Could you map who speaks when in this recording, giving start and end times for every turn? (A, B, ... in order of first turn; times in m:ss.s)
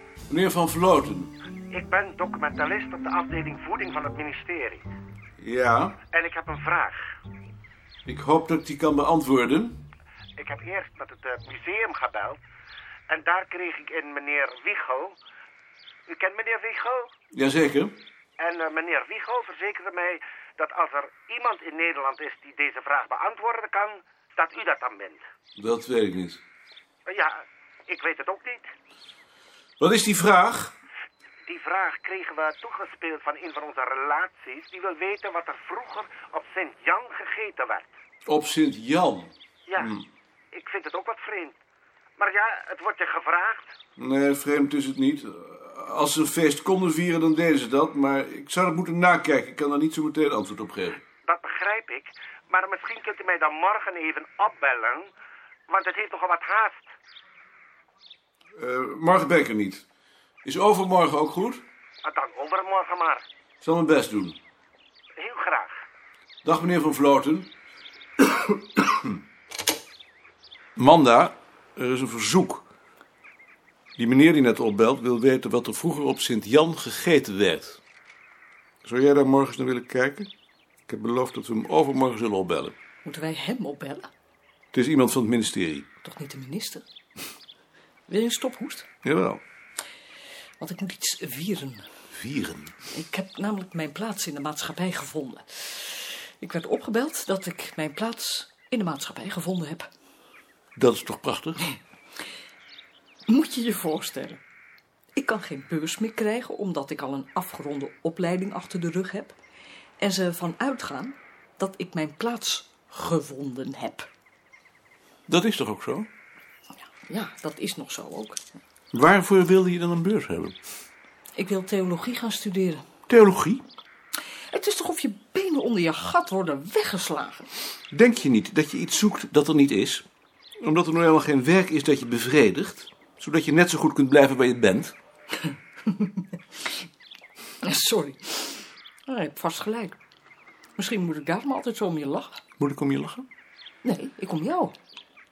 0:00.3-0:01.3 A
0:01.7-0:04.8 B
0:05.4-0:06.0 A
0:06.1-0:07.0 B
0:08.0-0:09.8 A
0:10.4-0:12.4 B
0:13.1-0:15.2 B
0:16.1-0:17.1 B
0:17.3-0:18.0 A
0:18.4-0:25.2 B
0:25.6-0:26.4 A
0:27.1-0:27.4 B
0:27.9-0:28.7 B
0:29.8-0:30.7 A
0:31.5-0:37.9 B
0:38.2-0:40.0 A
0:39.7-0:40.0 B
0:40.5-0:41.6 B
0:42.2-0:43.7 B
0:44.0-0:51.0 A
0:51.2-0:55.1 B
0:55.7-0:56.9 B
0:58.6-0:59.8 A
1:00.4-1:01.6 A
1:02.0-1:03.2 B
1:03.6-1:04.4 A
1:05.2-1:05.7 B
1:06.4-1:07.5 A
1:10.8-1:12.6 A
1:14.0-1:17.8 A
1:18.8-1:20.3 A
1:20.9-1:22.7 A
1:23.0-1:24.1 C
1:24.7-1:25.9 A
1:26.0-1:26.8 C
1:28.1-1:28.9 C
1:29.0-1:29.4 A
1:30.6-1:31.8 C
1:32.1-1:32.7 A
1:32.9-1:39.9 C
1:40.8-1:41.6 A
1:43.3-1:44.4 C
1:45.2-1:49.4 C
1:50.0-1:54.1 C
1:55.3-1:56.1 A
1:57.0-1:58.6 C
1:58.9-2:00.6 A
2:01.4-2:02.8 C
2:03.1-2:03.6 A
2:04.5-2:07.5 C
2:07.9-2:10.0 A
2:10.6-2:14.9 A
2:15.9-2:16.2 C
2:17.6-2:20.0 C
2:20.8-2:22.4 C
2:22.6-2:23.3 A
2:23.8-2:24.7 C